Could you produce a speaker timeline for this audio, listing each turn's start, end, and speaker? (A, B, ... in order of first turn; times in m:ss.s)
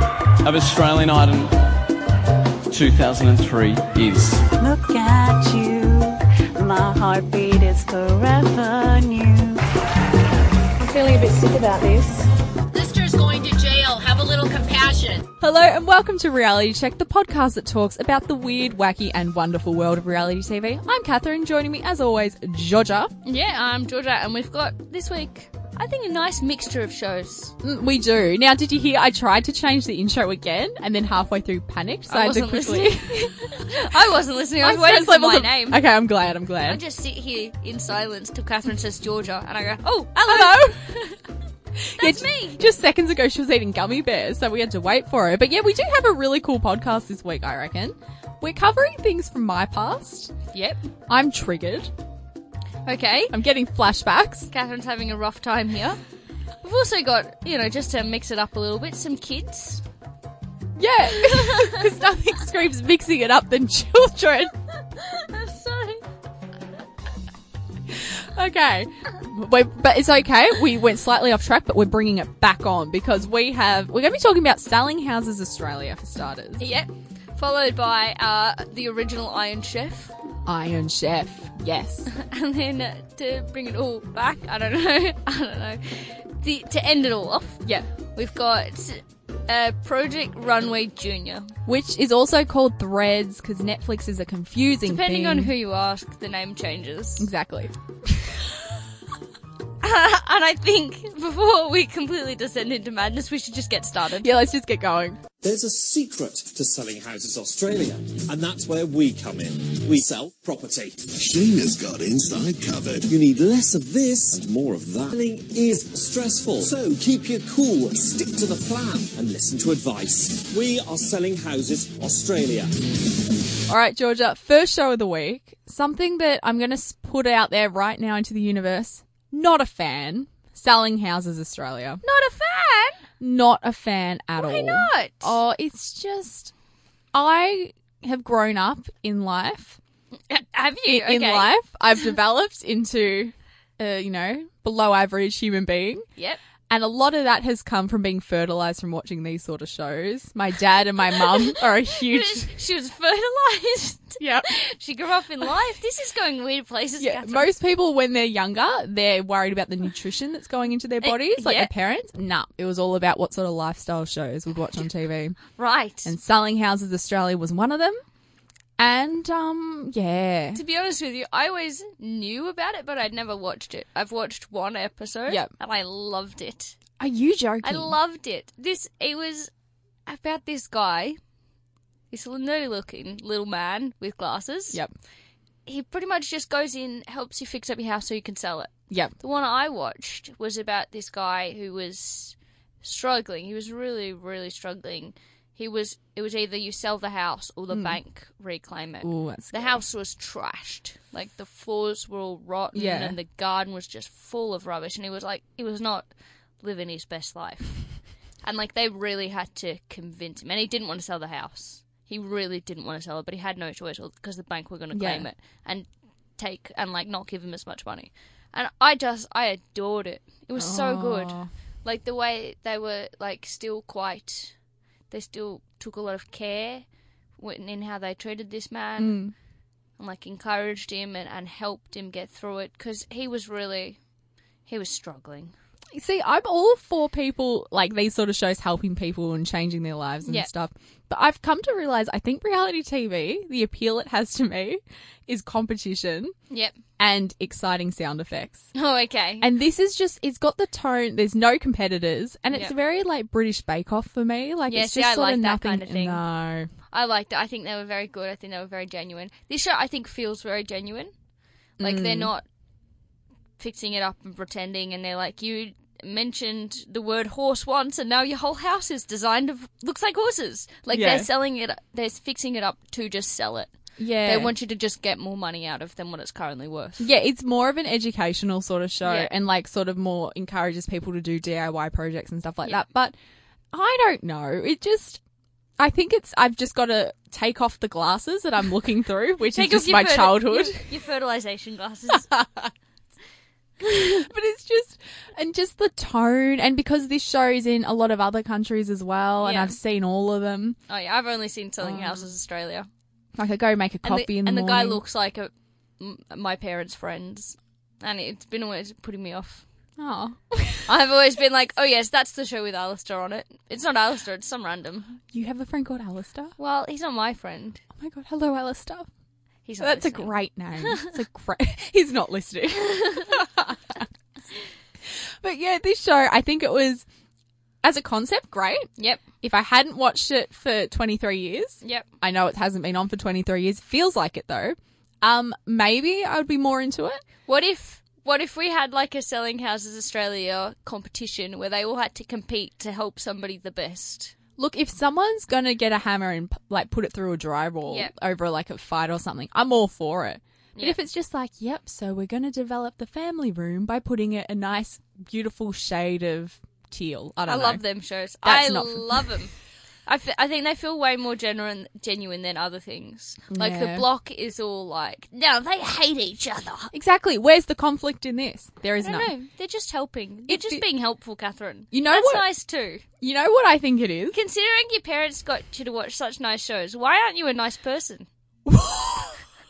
0:00.4-0:01.5 A
0:02.7-0:04.4 A
0:04.6-0:09.6 B
0:10.8-0:12.2 C
0:12.8-0:14.8 C
0:12.8-0:15.0 D
0:15.3-0:23.1 E
0:23.2-0:27.6 F
0:27.6-0:34.0 E
0:32.1-0:35.8 F
0:34.6-0:36.8 E
0:36.6-0:41.2 F
0:40.2-0:40.9 E
0:41.8-0:50.3 E
0:42.0-0:42.6 F
0:50.5-0:50.8 F
0:51.1-0:51.9 E
0:52.9-0:53.3 F
0:53.3-0:54.5 E
0:54.5-0:56.0 F
0:56.6-0:59.8 F
1:00.8-1:04.5 E
1:01.1-1:01.8 F
1:05.0-1:06.0 F
1:07.9-1:16.7 E
1:16.6-1:20.1 F
1:20.4-1:22.1 E
1:22.1-1:27.6 F
1:28.1-1:31.6 F
1:31.7-1:35.5 E
1:34.8-1:37.3 F
1:37.2-1:37.7 E
1:39.8-1:44.3 F
1:44.2-1:45.2 E
1:45.4-1:51.2 G
1:51.1-1:53.1 H
1:53.0-2:02.7 G
2:03.7-2:12.0 E
2:12.0-2:13.1 F
2:13.2-2:16.5 E
2:14.4-2:15.4 F
2:17.1-2:19.8 E
2:20.3-2:21.5 F
2:20.8-2:26.1 E
2:26.7-2:32.5 E
2:31.8-2:37.5 F
2:34.2-2:34.5 E
2:37.0-2:45.4 E
2:41.0-2:41.7 F
2:45.6-2:46.1 F
2:46.0-2:48.0 E
2:48.8-2:50.6 E
2:50.5-2:56.8 F
2:57.0-2:58.0 E
2:57.6-2:59.5 F
3:00.1-3:01.2 F
3:02.1-3:04.8 F
3:05.7-3:26.1 F
3:17.7-3:18.0 E
3:19.0-3:19.8 E
3:22.7-3:23.2 E
3:26.6-3:27.8 F
3:28.4-3:44.5 F
3:34.9-3:35.3 E
3:40.5-3:41.5 E
3:45.1-3:46.8 F
3:47.4-3:49.2 F
3:49.0-3:49.3 E
3:50.0-3:54.0 F
3:54.7-3:55.5 F
3:55.9-4:06.3 E
4:06.5-4:06.8 F
4:07.0-4:08.7 E
4:08.7-4:09.5 F
4:09.4-4:16.7 E
4:14.7-4:16.2 F
4:16.9-4:21.1 F
4:21.8-4:22.4 F
4:21.8-4:22.3 E
4:23.6-4:33.7 F
4:30.9-4:31.3 E
4:34.0-4:34.5 E
4:34.2-4:37.1 F
4:37.0-4:43.2 E
4:39.0-4:39.3 F
4:43.7-4:45.2 E
4:45.8-4:50.9 E
4:49.5-4:52.3 F
4:52.1-4:52.7 E
4:53.9-4:54.2 F
4:54.0-5:00.8 E
4:59.4-4:59.8 F
5:00.9-5:02.9 F
5:01.8-5:02.3 E
5:03.4-5:05.0 E
5:04.0-5:09.6 F
5:10.0-5:10.9 E
5:10.9-5:15.2 F
5:15.3-5:16.6 E
5:16.6-5:17.8 F
5:18.0-5:19.1 E
5:19.7-5:20.4 F
5:19.8-5:24.1 E
5:25.1-5:27.1 E
5:27.8-5:28.9 E
5:29.0-5:29.2 F
5:29.4-5:37.2 E
5:37.5-5:44.3 F
5:44.6-5:57.8 E
5:47.9-5:48.1 F
5:57.5-5:59.5 F
5:58.4-5:59.3 E
6:00.1-6:06.9 F
6:03.5-6:04.1 E
6:06.9-6:09.3 E
6:09.0-6:13.0 F
6:10.5-6:10.8 E
6:11.9-6:12.4 E
6:13.2-6:14.4 E
6:14.3-6:18.3 F
6:18.7-6:19.4 E